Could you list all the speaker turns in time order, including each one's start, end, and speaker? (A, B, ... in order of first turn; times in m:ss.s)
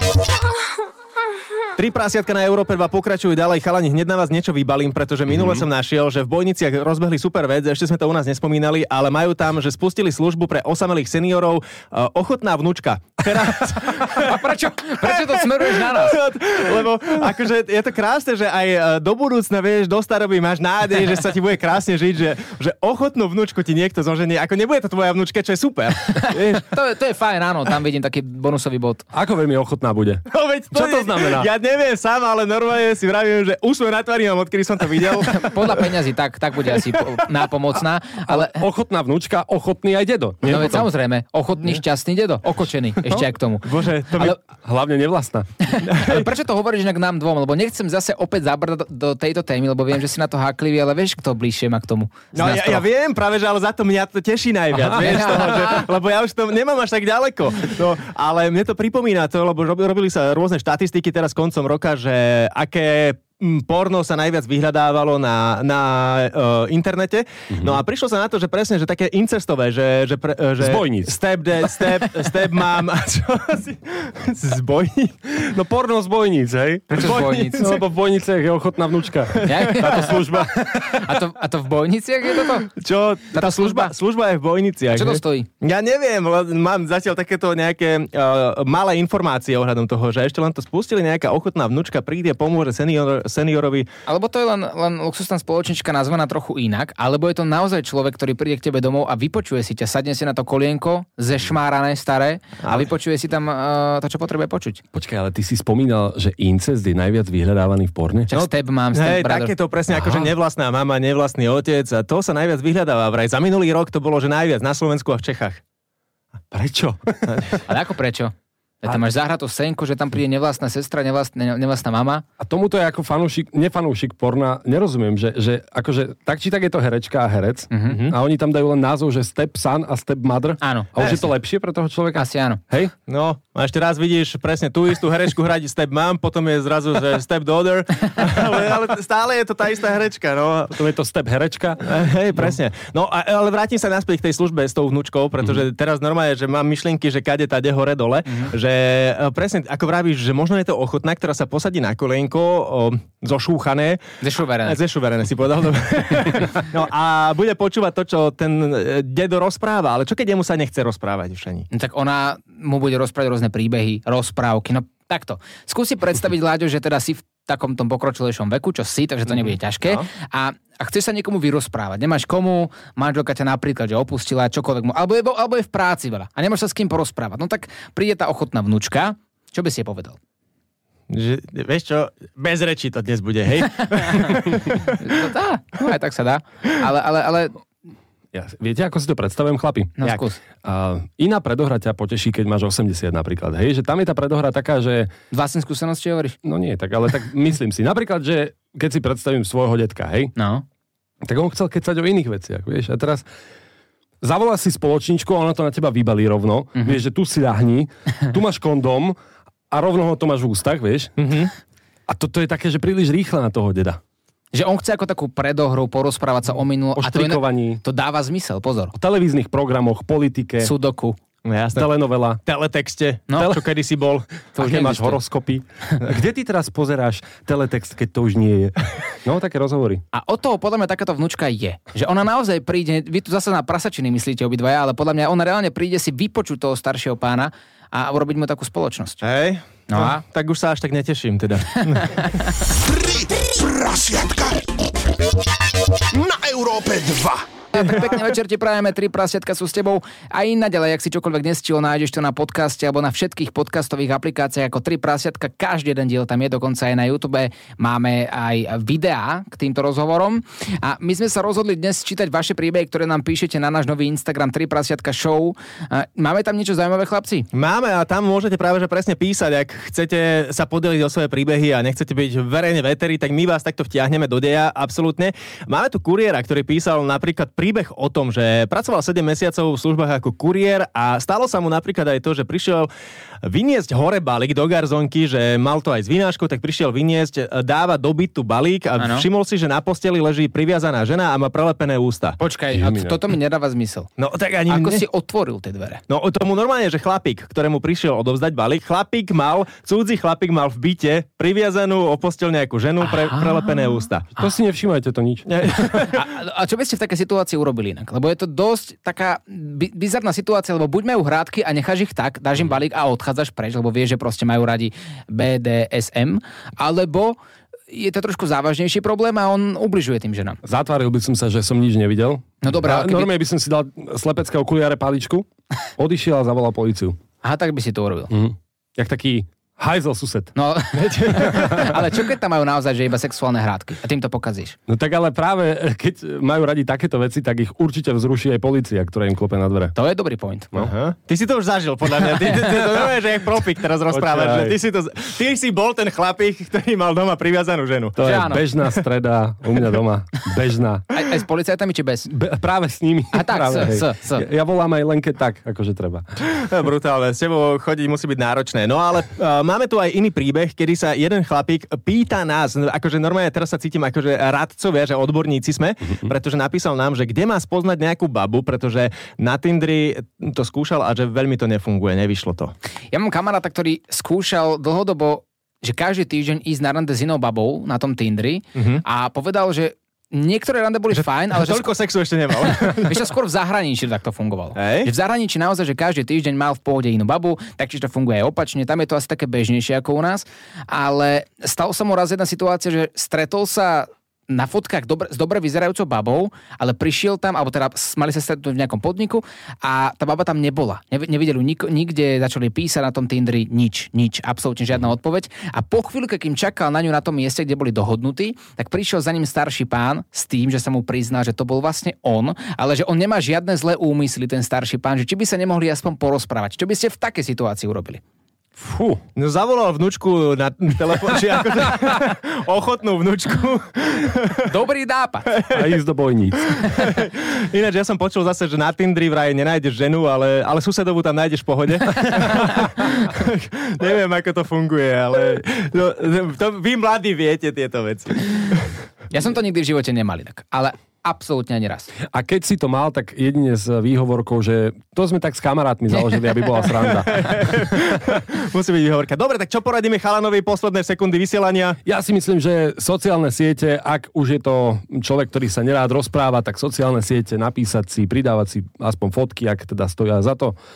0:01.8-0:14.4 A
0:05.3-0:05.6 B
0:14.1-0:16.2 C
0:15.0-0:26.6 A
0:26.2-0:29.0 C
0:29.1-0:31.5 B
0:30.3-0:35.9 A
0:35.2-0:38.6 C
0:38.2-0:40.9 B
0:40.4-0:44.4 C
0:43.6-0:44.4 A
0:44.6-0:45.5 B
0:45.7-0:52.8 C
0:45.8-0:46.3 A
0:52.3-1:15.4 A
0:54.8-0:55.4 B
0:54.9-0:55.8 C
1:07.5-1:07.8 B
1:10.6-1:11.2 B
1:15.5-1:21.0 B
1:16.9-1:17.8 C
1:16.9-1:17.8 A
1:19.3-1:20.2 A
1:19.4-1:22.7 C
1:22.8-1:33.9 A
1:23.3-1:23.9 C
1:24.9-1:25.5 C
1:34.1-1:44.8 C
1:44.9-1:48.3 B
1:48.3-1:50.3 C
1:48.3-1:55.6 A
1:56.5-1:57.6 B
1:57.7-2:02.2 C
2:02.4-2:12.9 B
2:07.7-2:08.0 C
2:07.9-2:08.2 A
2:10.6-2:11.3 C
2:12.1-2:12.6 C
2:13.1-2:20.8 A
2:20.7-2:21.9 B
2:21.8-2:34.0 A
2:34.2-2:34.8 C
2:34.6-2:41.6 A
2:41.7-3:00.2 C
2:49.3-2:50.0 A
3:01.1-3:05.0 A
3:05.0-3:07.6 C
3:08.3-3:15.1 B
3:10.0-3:10.4 C
3:15.3-3:16.4 C
3:16.4-3:20.3 B
3:20.4-3:20.6 C
3:21.2-3:23.2 B
3:24.2-3:29.2 B
3:29.7-3:31.1 B
3:31.2-3:31.5 A
3:32.1-3:34.0 B
3:34.5-3:38.9 C
3:37.0-3:37.8 B
3:38.9-3:40.7 B
3:40.6-3:41.2 C
3:41.4-3:41.9 A
3:41.7-3:42.4 B
3:42.4-3:44.7 A
3:43.3-3:43.6 C
3:44.6-3:45.2 C
3:44.6-3:50.0 B
3:50.1-3:59.2 C
3:59.2-4:02.4 A
3:59.9-4:00.2 C
4:02.8-4:04.6 D
4:06.1-4:07.4 D
4:07.7-4:27.5 C
4:27.5-4:42.9 A
4:43.4-4:52.4 A
4:49.0-4:49.2 C
4:52.4-4:54.1 C
4:52.7-4:53.2 B
4:54.2-4:55.0 A
4:54.7-4:56.0 C
4:56.1-5:04.3 A
5:03.0-5:04.5 C
5:04.4-5:05.5 B
5:05.5-5:06.2 A
5:06.0-5:17.4 C
5:17.9-5:20.6 C
5:20.6-5:25.4 B
5:22.6-5:23.3 C
5:26.0-5:27.2 B
5:27.4-5:28.3 C
5:28.3-5:30.5 B
5:30.5-5:34.8 C
5:31.1-5:31.9 A
5:34.9-5:39.9 B
5:39.9-5:40.7 C
5:40.8-5:48.2 A
5:44.1-5:44.8 B
5:48.2-5:51.1 B
5:48.2-5:48.6 C
5:51.1-5:52.3 C
5:52.3-5:56.2 B
5:53.3-5:54.5 C
5:56.4-6:12.7 A
6:13.1-6:21.9 C
6:18.7-6:19.0 A
6:21.1-6:23.2 A
6:22.6-6:58.2 C
6:24.8-6:25.1 A
6:58.8-6:59.2 B
6:59.4-7:04.6 A
7:04.6-7:05.5 C
7:05.5-7:05.8 A
7:05.7-7:06.7 B
7:06.7-7:18.9 A
7:19.3-7:22.1 C
7:22.3-7:27.7 B
7:26.1-7:26.9 C
7:27.1-7:32.0 A
7:32.0-7:40.8 B